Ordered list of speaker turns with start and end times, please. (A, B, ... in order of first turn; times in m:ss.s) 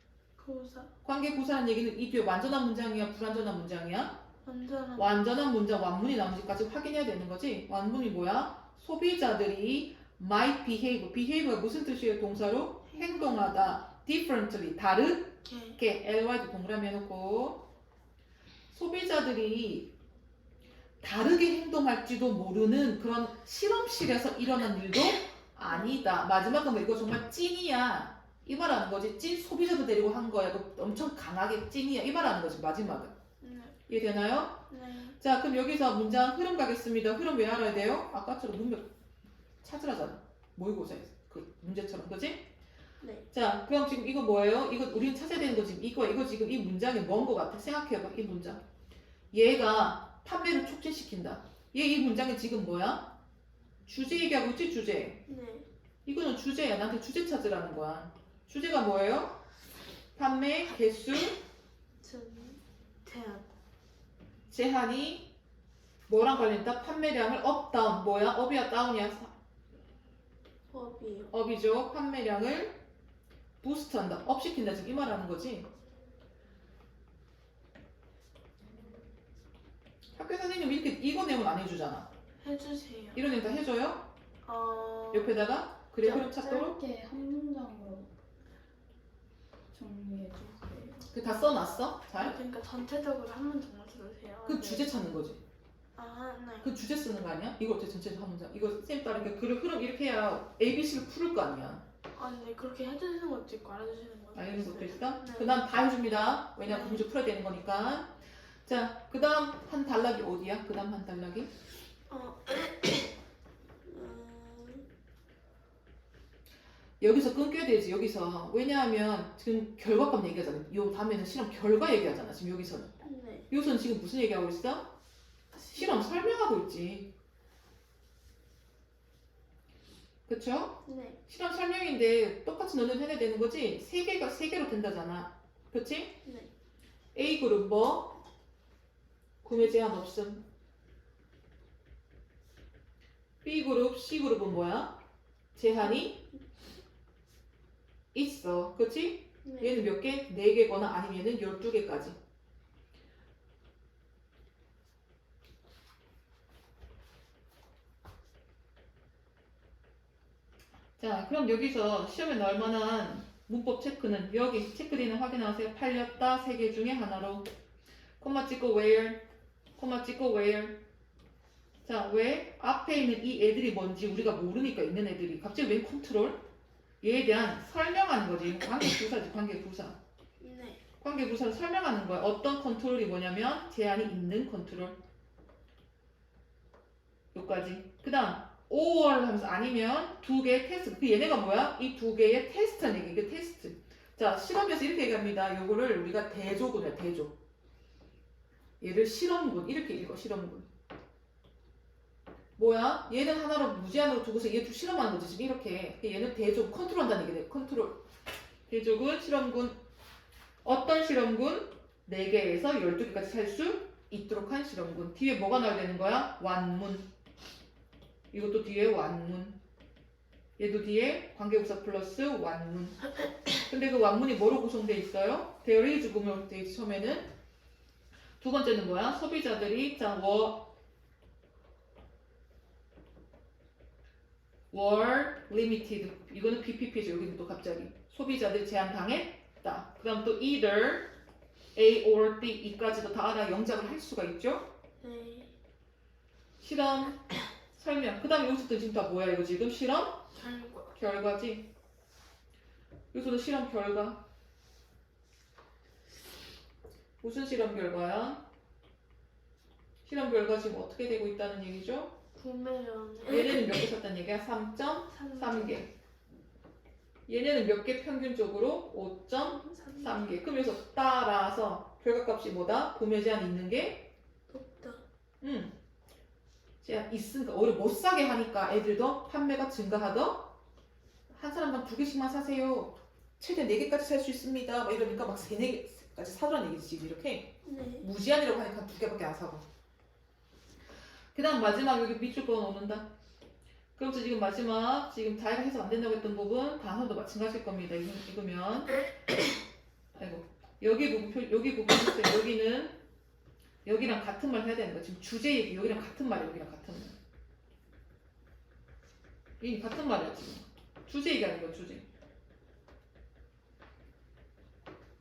0:00.4-0:00.9 A
0:01.0-0:04.2 B
0:04.4-0:05.2 A
0:05.0-0:17.6 B
0:12.9-0:13.8 A
0:15.4-0:15.8 A
0:18.7-0:19.9 B
0:21.0-0:33.2 B
0:25.7-0:26.0 A
0:33.4-0:33.8 A
0:33.9-0:34.7 B
0:34.7-0:35.2 A
0:35.2-0:38.9 B
0:39.6-0:42.5 B
0:43.0-0:43.3 A
0:43.3-0:48.6 B
0:49.3-0:53.1 B
0:53.8-0:55.2 B
0:55.3-0:55.7 A
0:56.1-0:59.3 B
1:00.2-1:01.4 B
1:02.0-1:03.5 A
1:04.5-1:05.3 B
1:06.1-1:09.3 B
1:10.7-1:11.3 A
1:11.3-1:12.8 B
1:13.6-1:15.7 B
1:20.2-1:22.1 B
1:22.4-1:23.2 A
1:23.2-1:24.1 B
1:24.4-1:25.4 A
1:25.1-1:26.8 B
1:26.1-1:28.1 C
1:29.7-1:31.1 C
1:31.1-1:32.4 B
1:32.2-1:34.9 A
1:34.4-1:35.4 B
1:36.0-1:36.7 A
1:36.6-1:41.8 B
1:42.1-1:45.6 A
1:44.4-1:51.5 B
1:46.7-1:47.1 A
1:52.1-1:53.1 A
1:53.8-1:54.9 A
1:57.0-2:02.9 B
2:03.0-2:03.5 A
2:03.5-2:04.9 B
2:05.5-2:06.1 A
2:05.8-2:07.1 B
2:10.3-2:16.2 B
2:10.8-2:11.2 A
2:16.2-2:16.5 A
2:17.2-2:18.2 B
2:19.4-2:20.4 B
2:23.4-2:25.0 B
2:25.6-2:26.2 B
2:25.8-2:26.4 A
2:28.1-2:32.2 B
2:29.4-2:29.9 A
2:41.0-2:47.5 B
2:48.2-2:49.2 B
2:49.8-2:50.8 B
2:51.8-2:56.4 B
2:57.0-3:00.0 B
3:00.4-3:00.8 A
3:01.0-3:05.0 B
3:07.3-3:17.3 B
3:18.8-3:20.7 B
3:22.6-3:28.0 B
3:28.7-3:29.8 B
3:30.6-3:37.1 B
3:38.3-3:39.6 B
3:40.6-3:43.0 B
3:43.7-3:47.3 B
3:48.4-3:50.7 B
3:54.7-4:01.1 B
4:01.8-4:04.7 B
4:05.0-4:05.5 A
4:06.6-4:07.2 B
4:07.8-4:10.3 B
4:10.4-4:10.9 A
4:10.9-4:11.7 B
4:13.1-4:14.2 B
4:17.2-4:18.4 B
4:20.0-4:22.2 B
4:22.4-4:23.7 A
4:23.3-4:25.9 B
4:25.1-4:25.8 A
4:27.3-4:34.1 B
4:29.5-4:30.4 A
4:34.5-4:35.0 A
4:35.4-4:35.7 B
4:36.8-4:40.5 B
4:41.3-4:49.6 B
4:47.6-4:48.1 A
4:51.3-4:53.1 B
4:54.0-4:59.0 B
5:00.1-5:03.0 B
5:03.8-5:07.2 B
5:09.6-5:12.1 B